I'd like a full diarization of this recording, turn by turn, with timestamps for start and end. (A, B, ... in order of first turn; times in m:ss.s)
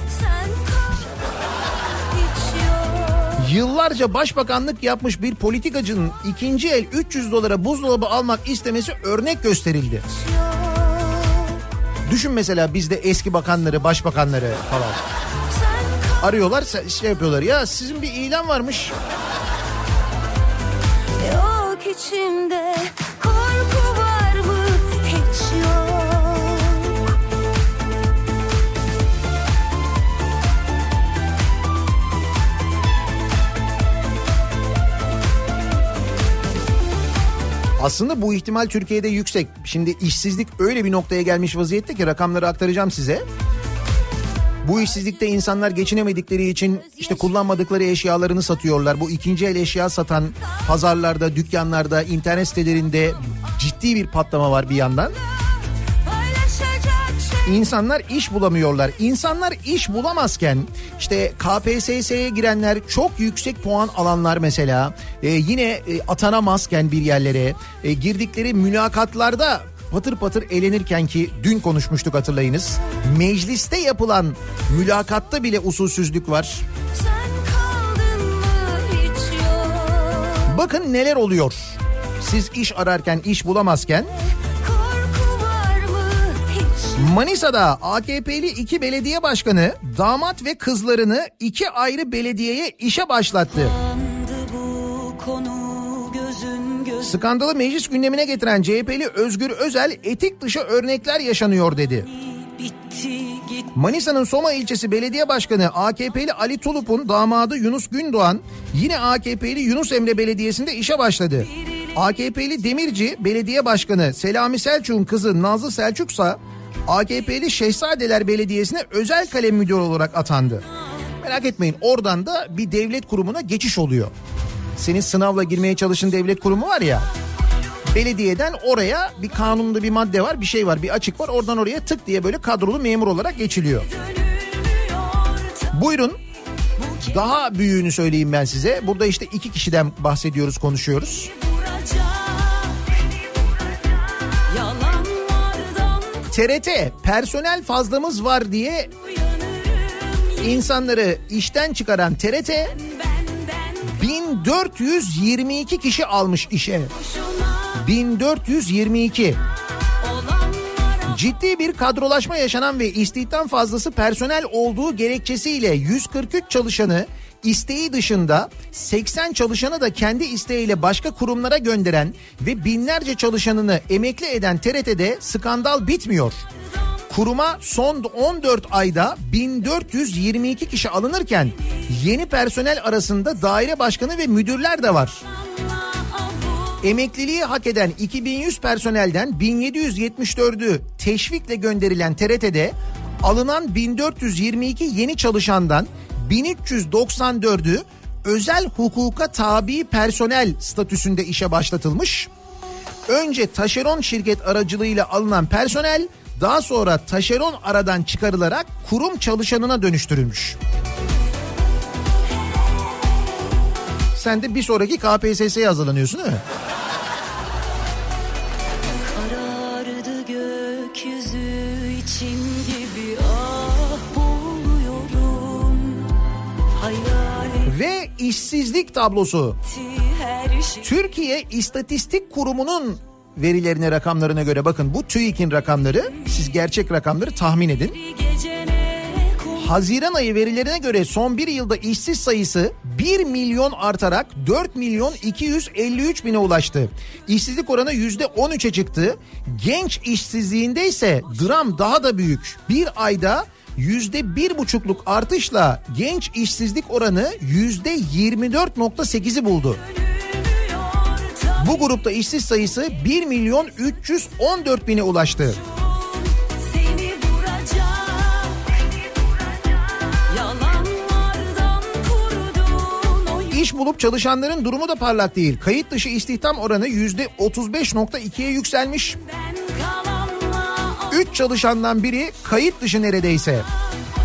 0:00.3-0:00.6 A
0:03.4-0:10.0 B
0:12.0-0:15.0 B
0:15.8-0:16.1 A
0:16.2-0:18.9 B
0:23.3-0:24.3 A
0:37.8-0:43.2 B
0:44.6-0:55.2 B
0:57.4-1:16.6 B
1:17.1-1:19.2 A
1:20.4-1:24.1 B
1:24.6-1:26.9 A
1:27.0-1:33.8 B
1:33.8-1:37.0 A
1:37.0-1:42.1 B
1:42.4-1:43.7 A
1:43.7-2:00.6 B
2:01.2-2:04.1 B
2:04.8-2:07.1 B
2:07.9-2:13.9 B
2:13.9-2:15.7 A
2:15.7-2:16.2 B
2:16.8-2:17.1 A
2:17.1-2:21.3 B
2:21.3-2:22.8 A
2:24.4-2:26.2 A
2:26.3-2:28.9 B
2:29.0-2:30.5 A
2:30.4-2:32.8 B
2:32.8-2:33.8 A
2:33.9-2:36.9 B
2:37.1-2:37.7 A
2:37.8-2:39.4 B
2:40.0-2:41.2 A
2:41.1-2:56.4 B
2:57.1-3:05.2 B
3:05.3-3:06.8 A
3:06.8-3:22.3 B
3:23.1-3:30.6 B
3:34.2-3:36.4 B
3:39.2-3:45.8 A
3:46.8-3:47.6 A
3:47.6-3:49.6 B
3:49.7-3:50.8 A
3:50.8-3:58.0 B
3:58.0-3:59.6 A
3:59.6-4:19.8 B
4:20.0-4:21.6 A
4:21.6-4:25.6 B
4:26.6-4:28.6 A
4:30.2-4:33.6 A
4:33.5-4:39.2 B
4:39.3-4:41.2 A
4:41.1-4:43.7 B